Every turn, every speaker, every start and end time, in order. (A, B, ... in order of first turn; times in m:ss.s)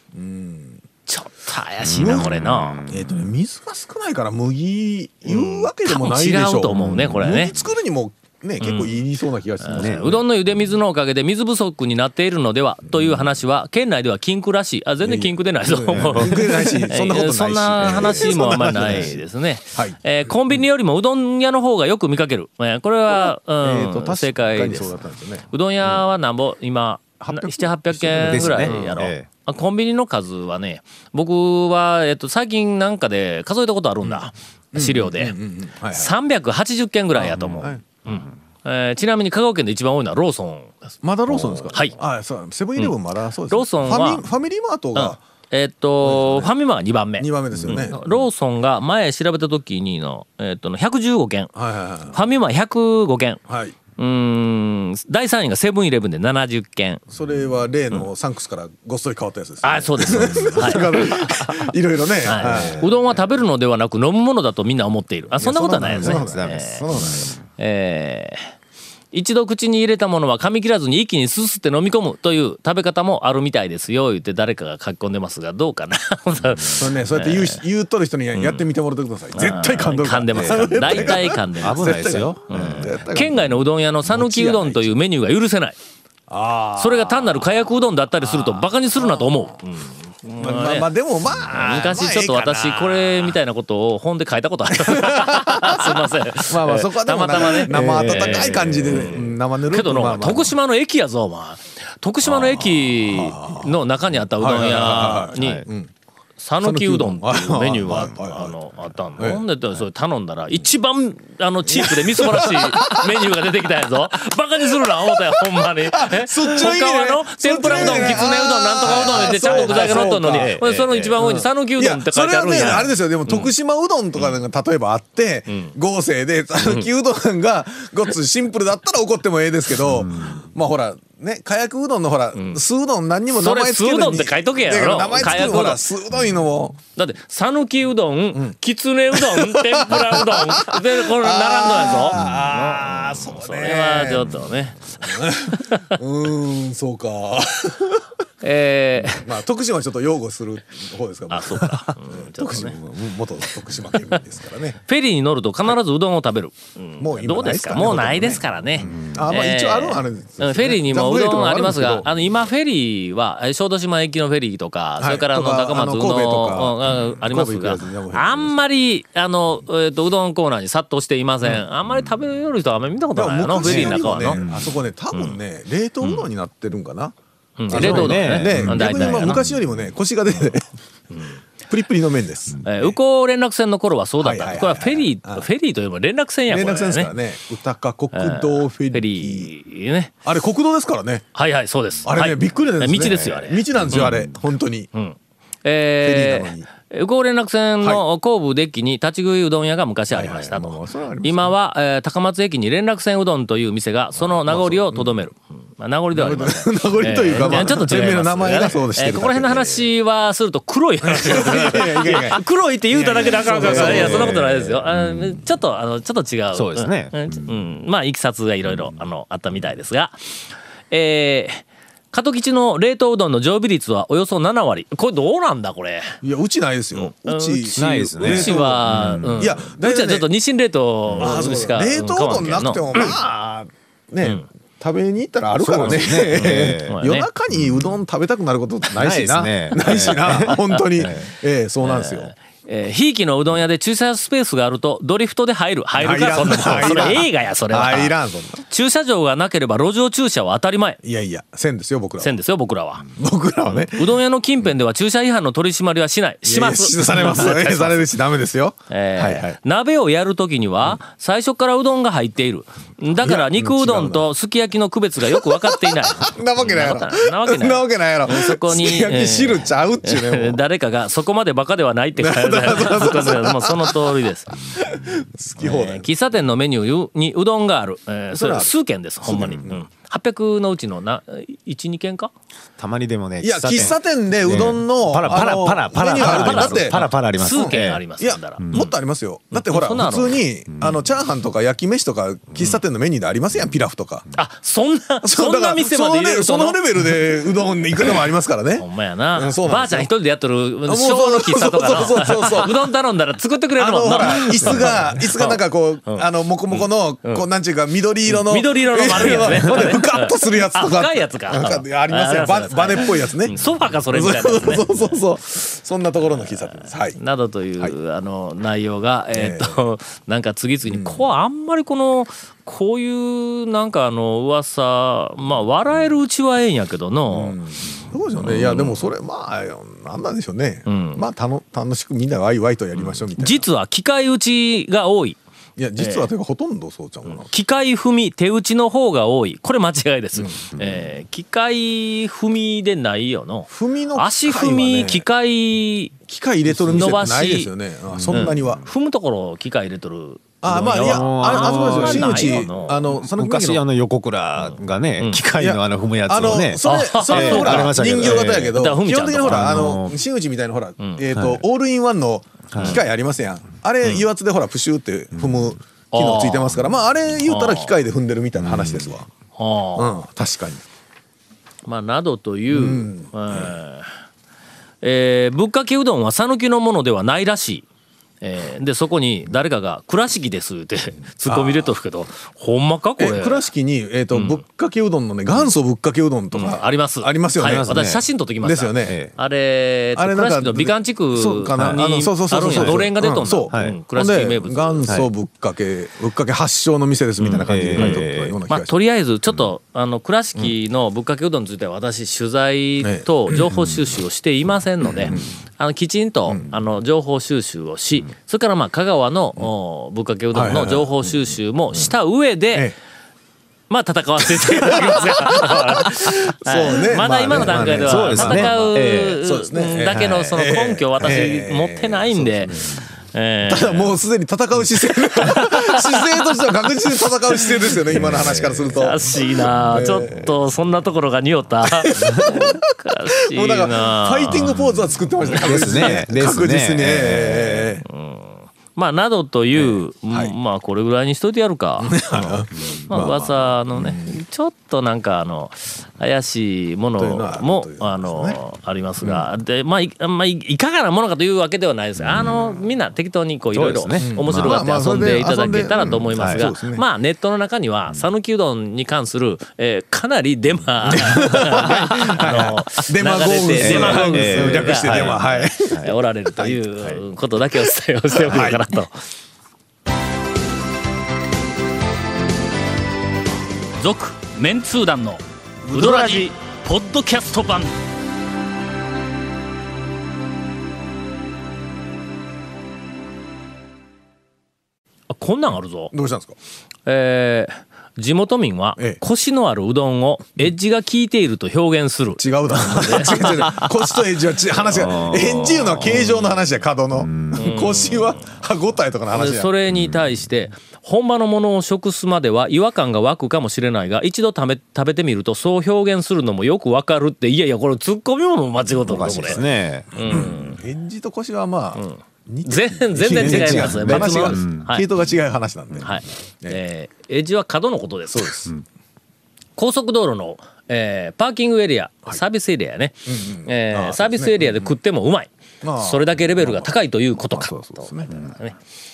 0:00.1-0:00.8 A
0:01.1-0:02.8 B
0:01.8-0:03.1 C
0:02.0-0:10.1 A
0:05.3-0:07.6 B
0:06.7-0:07.5 C
0:08.6-0:08.9 B
0:09.6-0:25.0 B
0:09.8-0:10.2 C
0:15.0-0:19.2 A
0:17.8-0:19.1 C
0:23.1-0:25.4 A
0:25.5-0:35.4 B
0:27.2-0:29.0 A
0:28.3-0:29.3 C
0:34.7-0:36.1 A
0:35.9-0:42.0 B
0:37.2-0:37.8 A
0:41.0-0:45.2 A
0:43.5-0:44.2 B
0:45.0-0:51.5 B
0:46.0-0:46.5 A
0:47.2-0:48.0 A
0:51.5-0:52.2 A
0:52.1-0:53.4 B
0:53.5-0:53.7 A
0:54.0-0:57.0 B
0:57.1-1:02.8 A
0:59.6-1:01.6 B
1:00.2-1:00.7 C
1:02.2-1:06.8 B
1:02.4-1:03.0 C
1:05.4-1:07.3 A
1:05.8-1:07.3 C
1:07.6-1:08.5 B
1:09.1-1:17.6 B
1:16.7-1:23.5 A
1:18.4-1:18.6 B
1:19.3-1:25.8 B
1:20.3-1:22.9 C
1:24.1-1:24.9 A
1:26.3-1:27.5 A
1:26.8-1:30.9 B
1:28.2-1:29.5 A
1:30.4-1:33.3 A
1:31.4-1:45.6 B
1:34.8-1:40.5 A
1:37.7-1:39.3 C
1:42.3-1:43.7 A
1:44.4-1:45.9 A
1:45.4-1:45.6 C
1:46.4-2:03.5 B
1:46.6-1:48.5 A
1:51.7-1:53.3 A
1:54.7-2:00.5 A
1:59.2-2:01.2 C
2:01.2-2:16.8 A
2:05.5-2:05.7 B
2:09.9-2:10.4 C
2:12.3-2:12.6 B
2:13.3-2:15.8 B
2:16.9-2:25.9 B
2:19.1-2:24.4 A
2:25.0-2:28.0 A
2:28.4-2:29.3 B
2:29.0-2:34.8 A
2:31.3-2:32.8 B
2:34.9-2:54.4 B
2:37.0-2:42.0 A
2:38.8-2:39.2 C
2:45.0-2:48.6 A
2:53.1-2:57.1 A
2:53.6-2:54.7 C
2:55.1-2:55.4 B
2:56.0-2:56.3 B
2:57.6-2:59.4 B
2:57.7-2:59.6 C
2:57.7-3:00.6 A
3:01.1-3:01.4 B
3:01.6-3:02.9 A
3:02.6-3:07.1 B
3:04.2-3:05.4 A
3:06.5-3:09.5 A
3:08.1-3:10.1 B
3:10.2-3:11.2 A
3:11.3-3:14.2 B
3:12.0-3:14.9 A
3:13.9-3:14.2 C
3:14.9-3:40.2 B
3:16.0-3:16.7 A
3:20.1-3:21.5 A
3:24.2-3:25.2 A
3:26.1-3:29.9 A
3:31.0-3:32.4 A
3:32.9-3:34.4 A
3:33.5-3:35.4 C
3:36.5-3:37.5 C
3:38.6-3:38.9 C
3:40.9-3:46.2 B
3:46.2-3:50.3 A
3:47.0-3:53.1 B
3:47.8-3:49.6 C
3:51.1-3:51.5 C
3:51.2-4:02.3 A
3:55.6-3:57.0 C
3:56.3-3:57.3 B
3:57.5-3:57.9 C
3:59.0-4:01.3 C
3:59.8-4:00.8 B
4:01.8-4:08.1 B
4:06.0-4:08.6 A
4:08.7-4:11.0 B
4:11.0-4:12.3 A
4:12.2-4:13.0 B
4:13.1-4:14.2 A
4:13.7-4:18.1 B
4:16.4-4:19.6 A
4:18.9-4:34.6 B
4:23.2-4:24.2 A
4:25.3-4:30.6 A
4:32.2-4:34.1 A
4:34.7-4:36.0 A
4:35.6-4:42.3 B
4:38.3-4:38.7 A
4:39.2-4:39.8 A
4:42.8-4:48.0 C
4:43.4-4:54.3 A
4:46.2-4:48.9 B
4:48.6-4:48.8 C
4:49.5-4:50.4 B
4:54.3-4:56.8 B
4:55.2-5:00.1 A
4:58.8-5:07.4 B
5:00.9-5:02.9 A
5:03.8-5:13.6 A
5:08.3-5:15.0 B
5:14.1-5:17.2 A
5:16.3-5:27.6 B
5:19.3-5:19.8 A
5:20.9-5:21.2 A
5:27.3-5:33.7 A
5:28.4-5:29.1 B
5:30.9-5:31.2 B
5:33.0-5:35.4 B
5:35.8-5:37.5 A
5:36.0-5:36.3 B
5:37.3-5:46.2 B
5:40.4-5:40.6 A
5:43.7-5:45.2 A
5:46.3-5:48.8 A
5:46.8-5:47.7 B
5:46.9-5:47.2 C
5:48.1-5:48.8 C
5:48.3-5:53.0 B
5:50.6-5:53.8 A
5:50.7-5:58.8 C
5:54.6-5:55.4 B
5:55.6-6:09.3 A
5:56.8-6:00.0 B
5:59.4-6:00.2 C
6:01.3-6:01.6 C
6:02.7-6:03.0 C
6:05.4-6:05.7 C
6:06.1-6:06.8 B
6:07.4-6:07.9 B
6:08.6-6:09.1 C
6:09.6-6:10.1 B
6:10.0-6:10.8 A
6:11.8-6:14.1 B
6:12.7-6:13.7 A
6:15.0-6:17.8 B
6:18.4-6:23.6 B
6:21.4-6:21.9 A
6:23.2-6:27.9 A
6:24.3-6:24.6 B
6:26.5-6:35.0 B
6:27.6-6:28.2 C
6:28.6-6:29.2 A
6:29.0-6:29.3 C
6:30.2-6:38.9 A
6:32.6-6:33.0 C
6:33.7-6:34.0 C
6:37.4-6:52.9 B
6:37.6-6:38.6 C
6:43.0-6:43.7 A
6:45.2-6:45.5 A
6:50.5-6:52.1 A
6:53.9-7:02.8 B
6:54.5-7:03.0 A
6:57.5-6:59.4 C
7:00.1-7:00.5 C
7:03.3-7:04.1 B
7:03.6-7:10.5 A
7:05.3-7:06.5 B
7:07.6-7:08.0 B
7:08.1-7:09.1 C
7:08.9-7:14.8 B
7:11.8-7:12.9 A
7:12.2-7:12.5 C
7:13.5-7:18.0 A
7:15.5-7:16.1 B
7:15.5-7:18.0 C
7:18.0-7:49.1 B
7:19.8-7:20.5 A
7:22.0-7:24.4 A
7:27.2-7:28.6 A
7:32.2-7:32.7 C
7:33.7-7:34.8 C
7:34.2-7:37.0 A
7:36.0-7:36.7 C
7:41.0-7:46.0 A
7:43.8-7:46.1 C
7:48.4-7:48.8 A
7:54.0-7:55.4 B
7:55.9-7:56.5 A
7:55.9-7:57.9 B
8:05.3-8:06.1 B
8:06.1-8:06.5 A
8:07.0-8:13.8 B
8:12.4-8:19.7 A
8:14.9-8:16.2 C
8:15.9-8:16.2 B
8:17.2-8:17.6 C
8:17.6-8:18.4 B
8:19.3-8:29.6 B
8:19.9-8:20.2 C
8:29.0-8:30.7 C
8:29.1-8:29.6 A
8:30.1-8:30.8 B
8:30.2-8:36.8 A
8:32.0-8:35.1 B
8:33.2-8:34.9 C
8:36.0-8:38.7 B
8:38.3-8:38.7 A
8:39.8-8:48.8 B
8:43.3-8:44.9 A
8:45.8-8:48.5 A